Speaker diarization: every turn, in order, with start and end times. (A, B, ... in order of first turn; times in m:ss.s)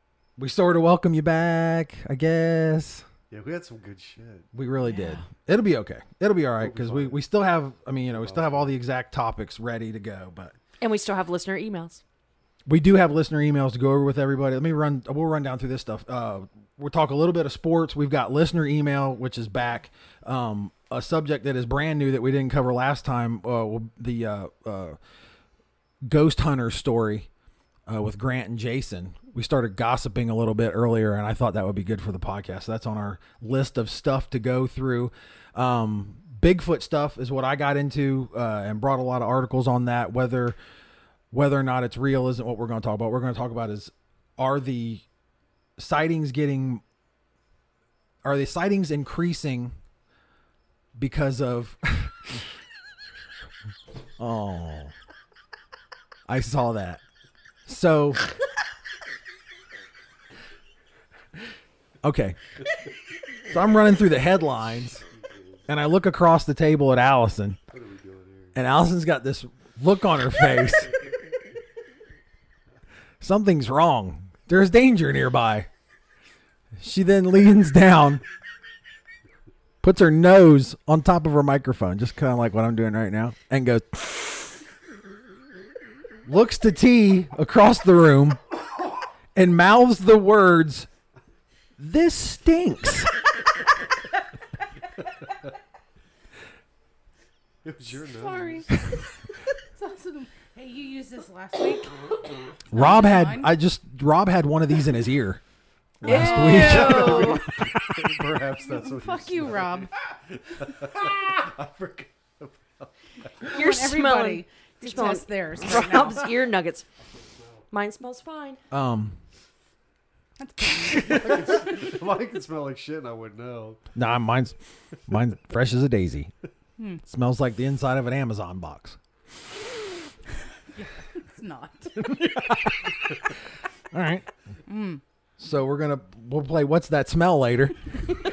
0:00.4-0:03.0 A
0:03.3-0:04.5 B
0:04.5-0:10.5 A
0:04.8-0:05.2 C
0:06.6-0:07.2 B
0:08.1-0:08.7 B
0:10.8-0:12.0 D
0:12.6-0:25.0 A
0:26.0-0:27.3 A
0:27.9-0:40.6 A
0:41.3-0:45.0 A
0:45.8-0:46.8 A
0:48.2-0:49.7 A
0:51.0-0:52.5 A
0:54.2-0:54.9 A
0:56.3-0:57.0 A
0:57.6-0:58.3 A
1:02.0-1:02.4 A
1:03.4-1:05.0 A
1:05.0-1:05.6 B
1:05.7-1:07.6 A
1:07.7-1:08.6 B
1:08.6-1:11.0 A
1:13.2-1:15.7 A
1:16.8-1:18.2 A
1:19.8-1:24.6 A
1:26.2-1:28.4 A
1:29.3-1:30.9 A
1:31.8-1:33.1 A
1:37.6-1:38.7 B
1:38.0-1:39.0 C
1:39.7-1:43.5 C
1:42.7-1:45.4 A
1:46.0-1:48.1 A
1:46.0-1:47.5 D
1:46.1-1:47.4 C
1:46.2-1:53.3 B
1:48.6-1:49.9 C
1:53.4-1:56.3 C
1:53.4-1:56.9 D
1:57.2-1:57.6 B
1:57.7-1:58.6 D
1:58.7-1:59.2 A
2:00.4-2:01.6 C
2:01.0-2:03.8 B
2:03.9-2:06.3 A
2:07.0-2:09.0 A
2:10.7-2:12.2 C
2:12.0-2:13.2 A
2:13.9-2:14.2 A
2:14.6-2:15.0 C
2:15.4-2:17.8 A